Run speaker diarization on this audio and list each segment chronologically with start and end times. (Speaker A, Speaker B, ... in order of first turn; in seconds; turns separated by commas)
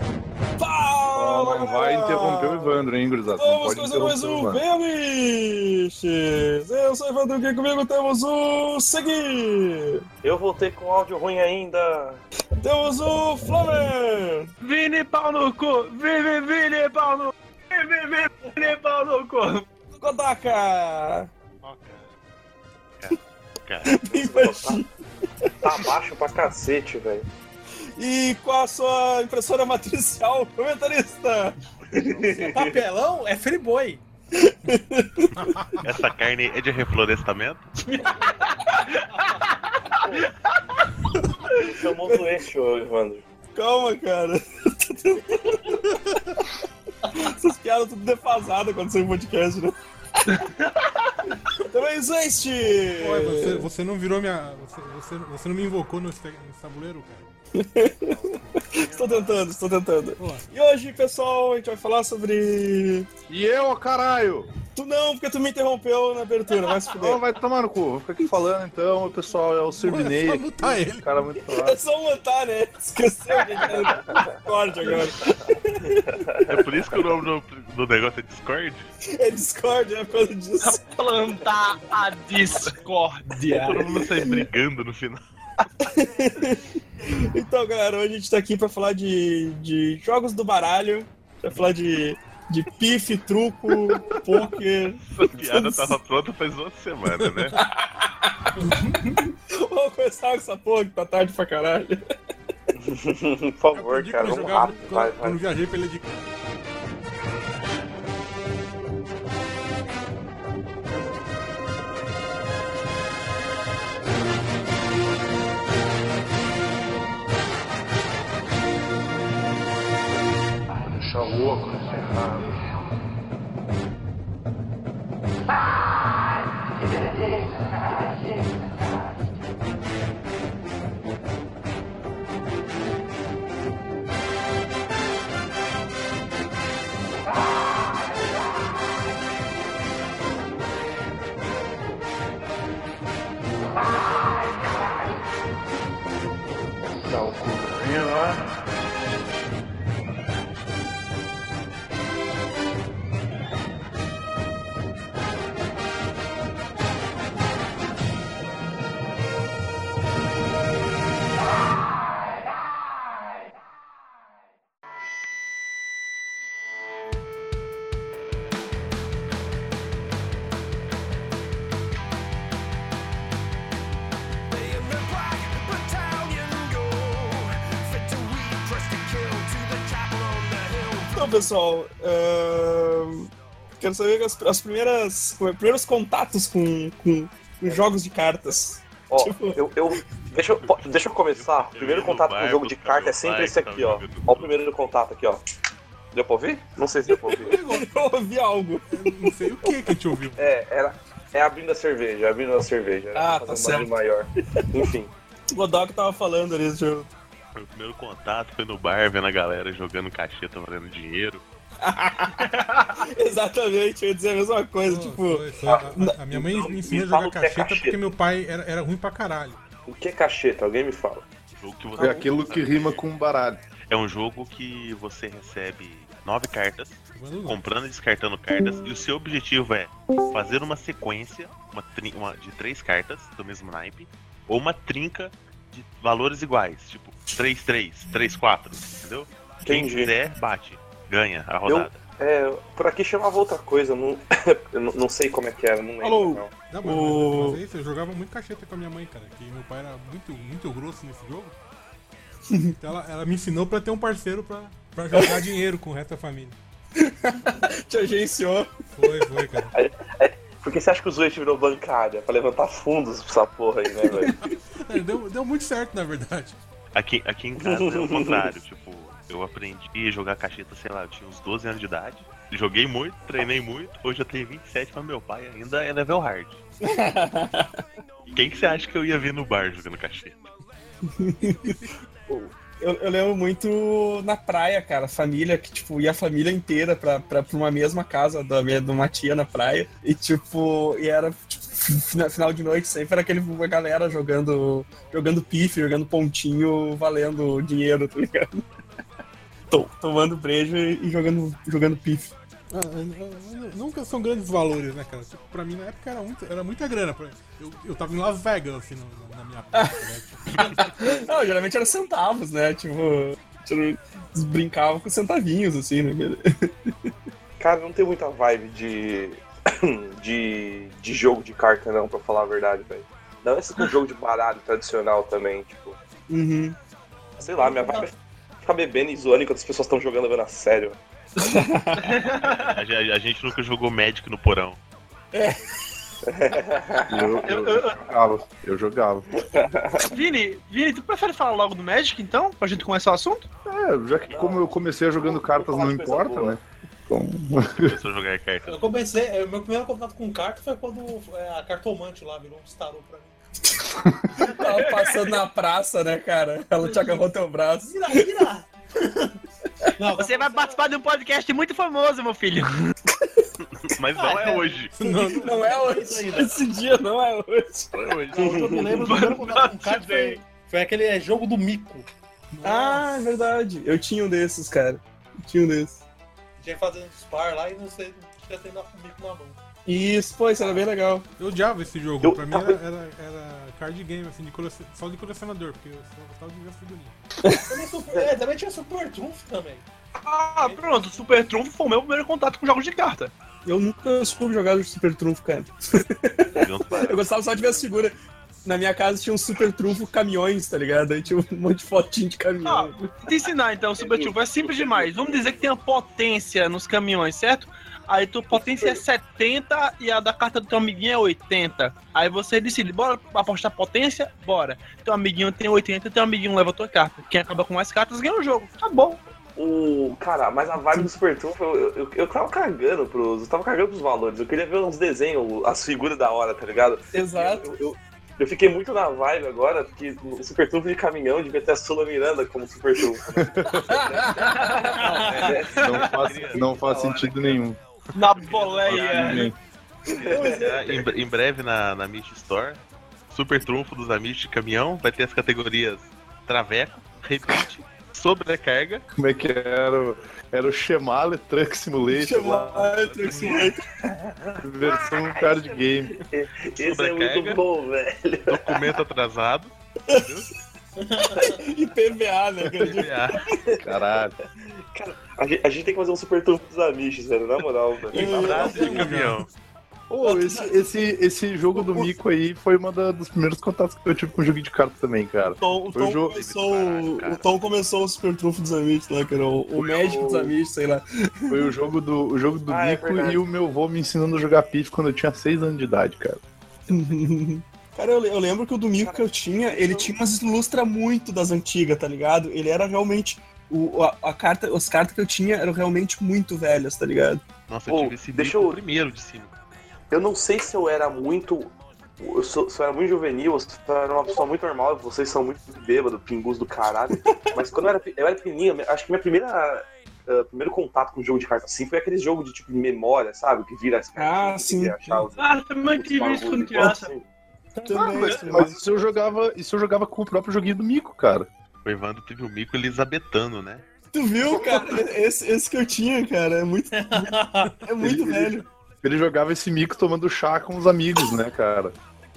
Speaker A: 0.6-2.8, Speaker B: 1.1-4.6, Speaker A: 3.3-10.0, Speaker C: 10.2-12.2, Speaker A: 12.6-14.5, Speaker D: 14.6-19.6, Speaker A: 20.0-21.3, Speaker E: 21.6-22.0, Speaker E: 23.0-24.0, Speaker A: 23.9-24.9, Speaker C: 24.1-24.8, Speaker A: 25.4-25.9, Speaker C: 25.6-27.3, Speaker A: 28.0-32.7, Speaker C: 31.9-32.8, Speaker F: 32.4-34.0, Speaker A: 34.4-35.3, Speaker G: 35.4-35.8, Speaker E: 35.8-38.2, Speaker F: 37.9-38.3, Speaker F: 39.1-39.4, Speaker C: 41.6-43.2, Speaker A: 43.5-46.0, Speaker A: 47.1-49.8, Speaker D: 50.3-51.2, Speaker A: 51.7-53.7, Speaker G: 53.0-57.3, Speaker A: 57.5-63.1, Speaker H: 58.1-59.4, Speaker G: 60.2-60.5, Speaker B: 63.3-64.5, Speaker A: 64.8-67.2, Speaker B: 66.9-71.8, Speaker G: 69.8-71.1, Speaker A: 71.4-76.2, Speaker C: 73.7-74.3, Speaker C: 76.1-76.7, Speaker E: 76.4-78.9, Speaker A: 79.1-81.4, Speaker D: 80.6-83.9, Speaker E: 83.5-85.2, Speaker A: 85.8-95.0, Speaker E: 95.1-97.6, Speaker C: 95.3-95.9, Speaker A: 97.7-102.0, Speaker F: 98.7-99.0, Speaker C: 102.8-105.4, Speaker G: 103.7-106.2, Speaker H: 120.8-122.7, Speaker H: 126.8-128.7, Speaker H: 146.9-148.4, Speaker H: 174.5-181.4, Speaker A: 181.1-189.6, Speaker C: 189.1-195.4, Speaker E: 190.6-194.6, Speaker C: 196.1-197.6, Speaker A: 197.2-199.8, Speaker G: 198.9-200.5, Speaker C: 200.4-205.1, Speaker D: 203.2-203.9, Speaker A: 205.5-207.1, Speaker E: 207.6-211.4, Speaker A: 211.8-215.4, Speaker D: 212.4-212.9, Speaker G: 214.8-219.6, Speaker C: 215.6-218.0, Speaker C: 219.9-221.3, Speaker E: 221.6-223.0, Speaker C: 222.0-222.3, Speaker B: 222.0-223.6, Speaker E: 223.9-242.0, Speaker G: 227.2-227.6, Speaker C: 239.7-240.1, Speaker C: 241.7-246.5, Speaker D: 246.0-246.4, Speaker G: 246.7-251.6, Speaker A: 246.8-247.6, Speaker G: 252.8-256.6, Speaker A: 257.0-258.7, Speaker G: 259.0-259.7, Speaker C: 259.7-264.4, Speaker A: 264.1-264.4, Speaker G: 264.7-266.6, Speaker E: 266.9-276.6, Speaker C: 267.6-268.5, Speaker A: 276.8-277.8, Speaker E: 278.3-280.5, Speaker A: 281.1-298.7, Speaker A: 299.7-302.3, Speaker G: 302.7-311.2, Speaker A: 309.7-310.0, Speaker A: 310.7-317.1, Speaker C: 317.6-326.0, Speaker A: 326.3-326.8, Speaker F: 327.4-328.1, Speaker C: 327.4-331.0, Speaker A: 331.4-332.0, Speaker D: 332.0-332.8, Speaker E: 332.2-334.8, Speaker A: 335.3-335.8, Speaker C: 336.3-337.6, Speaker B: 337.1-339.3, Speaker D: 337.4-338.0, Speaker C: 339.4-340.1, Speaker D: 340.0-343.5, Speaker B: 343.7-347.9, Speaker C: 344.3-346.6, Speaker E: 347.7-348.9, Speaker F: 348.7-353.9, Speaker A: 354.4-358.2, Speaker D: 354.9-355.3, Speaker F: 357.8-359.3, Speaker F: 360.0-360.8, Speaker D: 360.1-362.7, Speaker E: 363.8-364.9, Speaker F: 364.2-366.6, Speaker G: 364.9-365.8, Speaker A: 365.0-368.0, Speaker E: 367.9-368.6, Speaker F: 368.3-372.1, Speaker C: 368.4-368.9, Speaker D: 368.9-370.4, Speaker G: 372.5-373.2, Speaker A: 372.6-376.0, Speaker F: 376.6-379.6, Speaker A: 379.9-381.3, Speaker G: 381.4-387.2, Speaker C: 382.2-382.8, Speaker F: 387.6-389.8, Speaker D: 390.2-393.3, Speaker F: 390.6-391.2, Speaker A: 393.6-403.1, Speaker E: 396.6-397.4, Speaker D: 402.6-419.2, Speaker C: 404.0-405.6, Speaker C: 408.5-409.0, Speaker C: 419.6-437.6, Speaker A: 427.1-427.7, Speaker B: 433.4-433.9, Speaker D: 434.3-436.1, Speaker E: 435.1-436.6, Speaker B: 435.8-437.8, Speaker D: 438.1-439.5, Speaker E: 438.4-439.5, Speaker B: 438.9-439.5, Speaker E: 440.1-442.8, Speaker C: 440.1-441.1, Speaker E: 443.3-449.0, Speaker B: 449.2-452.9, Speaker A: 452.1-453.8, Speaker G: 453.2-453.7, Speaker C: 454.1-458.9, Speaker B: 454.6-456.1, Speaker E: 456.8-457.6, Speaker E: 458.5-460.5, Speaker F: 461.0-461.6, Speaker A: 461.2-463.2, Speaker E: 462.8-463.4, Speaker C: 463.6-464.1, Speaker B: 463.8-464.4, Speaker C: 464.9-469.1, Speaker A: 468.1-468.8, Speaker E: 468.1-469.5, Speaker G: 468.5-469.5, Speaker B: 470.1-476.4, Speaker D: 470.2-470.8, Speaker A: 475.6-481.6, Speaker E: 476.2-477.5, Speaker C: 479.8-480.5, Speaker B: 481.5-486.4, Speaker C: 482.7-483.4, Speaker E: 486.9-487.2, Speaker A: 486.9-497.4, Speaker C: 489.0-490.1, Speaker E: 497.7-499.6, Speaker C: 497.9-498.8, Speaker C: 500.1-517.2, Speaker A: 514.2-515.2, Speaker D: 515.4-517.1, Speaker F: 517.8-518.4, Speaker A: 517.9-518.8, Speaker B: 518.0-521.5, Speaker E: 521.9-523.9, Speaker A: 524.1-528.7, Speaker F: 526.9-527.7, Speaker B: 528.0-532.0